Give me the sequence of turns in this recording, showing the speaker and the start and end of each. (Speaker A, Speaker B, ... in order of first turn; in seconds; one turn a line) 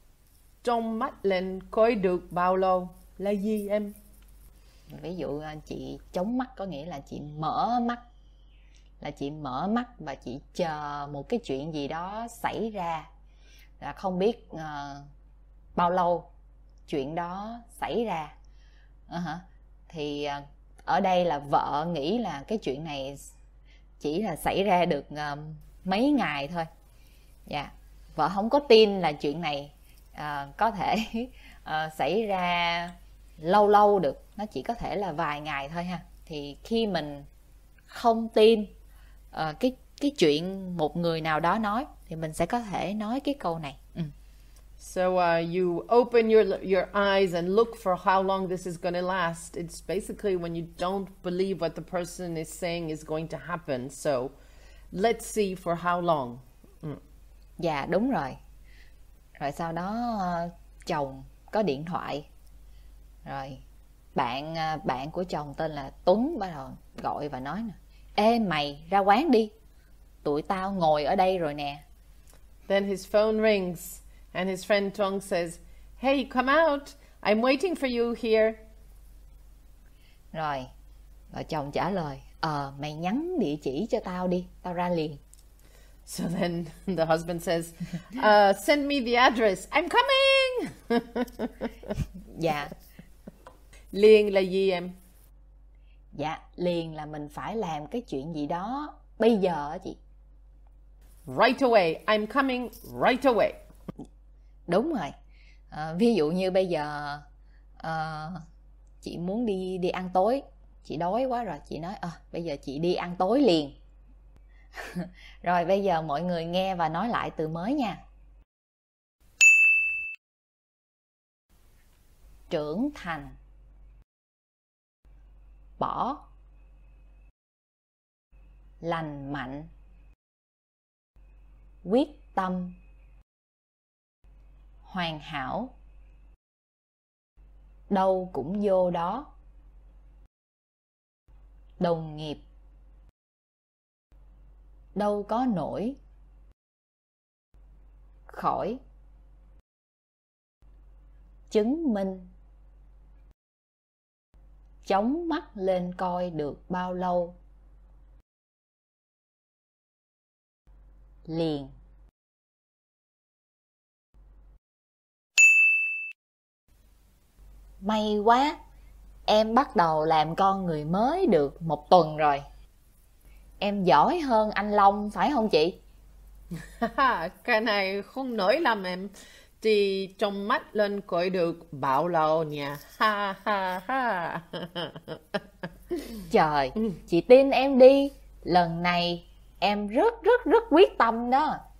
Speaker A: 0.6-3.9
Speaker B: 4.9-8.0
Speaker B: 9.0-13.1
Speaker B: 13.8-15.1
Speaker B: 15.8-16.3
Speaker B: 16.9-18.3
Speaker B: 19.1-23.3
Speaker B: 24.0-26.7
Speaker B: 27.5-37.3
Speaker B: 37.9-38.7
Speaker B: 39.3-44.1
Speaker A: 44.8-54.3
Speaker A: 54.9-57.0
Speaker B: 57.6-58.4
Speaker B: 59.4-62.3
Speaker B: 63.2-63.6
Speaker B: 64.1-69.5
Speaker B: 70.2-71.8
Speaker A: 72.7-78.6
Speaker B: 80.3-80.7
Speaker B: 81.3-85.2
Speaker A: 86.0-91.7
Speaker B: 92.3-92.7
Speaker A: 93.9-95.0
Speaker B: 96.1-100.0
Speaker A: 101.2-103.6
Speaker B: 104.7-105.1
Speaker B: 105.7-107.2
Speaker B: 107.8-108.4
Speaker B: 109.0-113.7
Speaker B: 114.8-118.0
Speaker B: 122.5-123.3
Speaker B: 125.8-126.2
Speaker B: 128.8-129.7
Speaker B: 131.8-132.8
Speaker B: 134.8-135.7
Speaker B: 137.9-139.3
Speaker B: 141.8-142.4
Speaker B: 144.9-146.0
Speaker B: 148.3-148.8
Speaker B: 151.5-152.3
Speaker B: 154.8-157.4
Speaker B: 161.3-161.7
Speaker B: 167.8-168.6
Speaker B: 169.3-172.4
Speaker B: 173.6-175.8
Speaker A: 176.8-185.4
Speaker B: 186.3-191.6